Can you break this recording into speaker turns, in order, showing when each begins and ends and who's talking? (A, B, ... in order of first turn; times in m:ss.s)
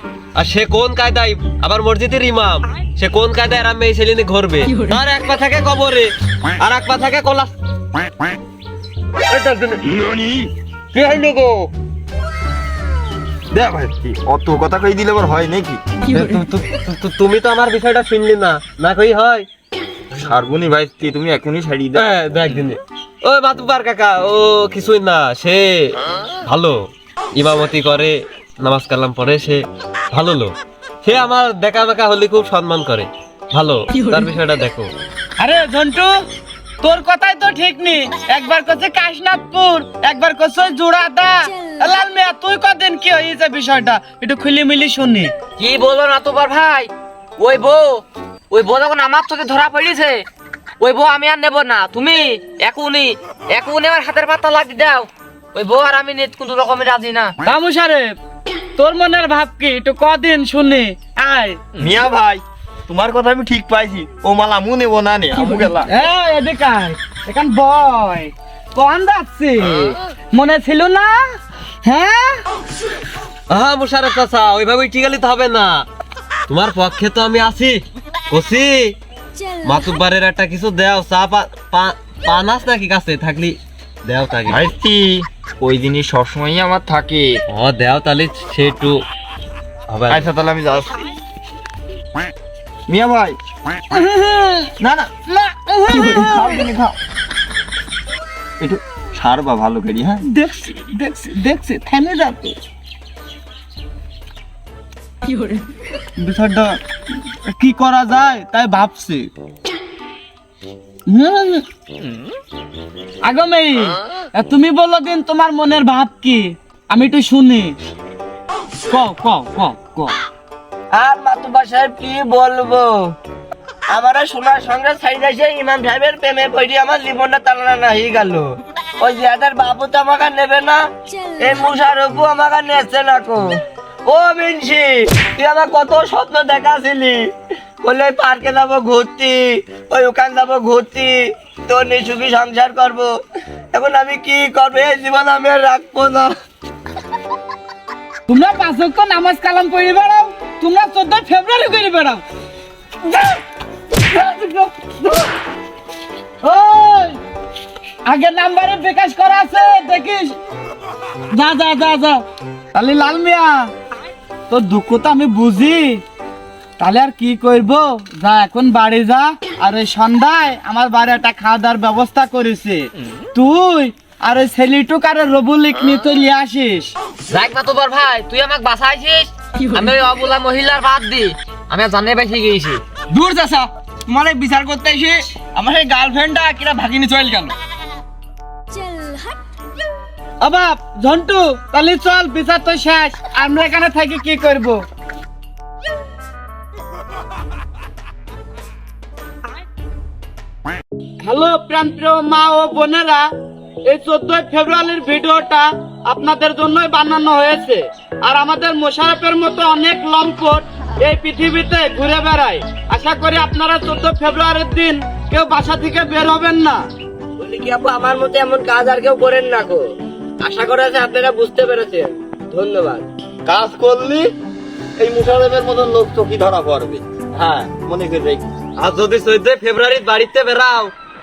0:00.4-0:07.5 A
0:09.3-0:10.2 A
0:10.9-0:11.7 A
0:13.5-0:15.9 B
0:16.1-0:19.5 A
0:20.2-0:22.1 B
0:22.0-0:34.9 A
0:35.4-0:36.1 C
0:36.8-0:45.3 C
0:45.6-0:50.2 D
0:50.8-0:57.4 D
0:57.5-0:58.1 C
0:58.8-1:01.6 C
1:01.8-1:05.9 B
1:05.8-1:12.4 C
1:13.5-1:15.8 A
1:16.5-1:18.9 A
1:19.6-1:24.7 A
1:24.5-1:27.3 B
1:27.5-1:29.0 A
1:29.9-1:30.3 A
1:30.1-1:31.0 B
1:32.9-1:33.4 B
1:33.9-1:34.7 C
1:34.8-1:35.2 B
1:35.3-1:36.7 C
1:35.9-1:37.0 B
1:38.6-1:40.3 B
1:40.3-1:42.6 C
1:46.2-1:46.8 C
1:47.5-1:49.3 C
1:51.1-1:51.6 C
1:53.2-1:57.7 C
1:58.9-2:00.2 C
2:00.9-2:03.1 E
2:03.9-2:08.5 E
2:09.0-2:10.8 E
2:11.4-2:13.4 E
2:14.1-2:17.2 E
2:17.8-2:23.1 E
2:23.7-2:26.3 E
2:28.3-2:32.2 C
2:33.0-2:33.4 C
2:34.0-2:35.3 C
2:36.4-2:37.2 C
2:38.1-2:40.4 C
2:41.3-2:42.2 C
2:42.8-2:43.7 C
2:44.5-2:46.0 C
2:46.8-2:57.0 C
2:57.3-3:02.8 D
3:03.1-3:07.6 F
3:10.4-3:14.8 C
3:21.2-3:23.3 C
3:23.9-3:36.9 C
3:37.4-3:39.8 E
3:40.4-3:43.1 E
3:43.5-3:44.3 B
3:45.0-3:48.5 B
3:48.8-3:50.9 A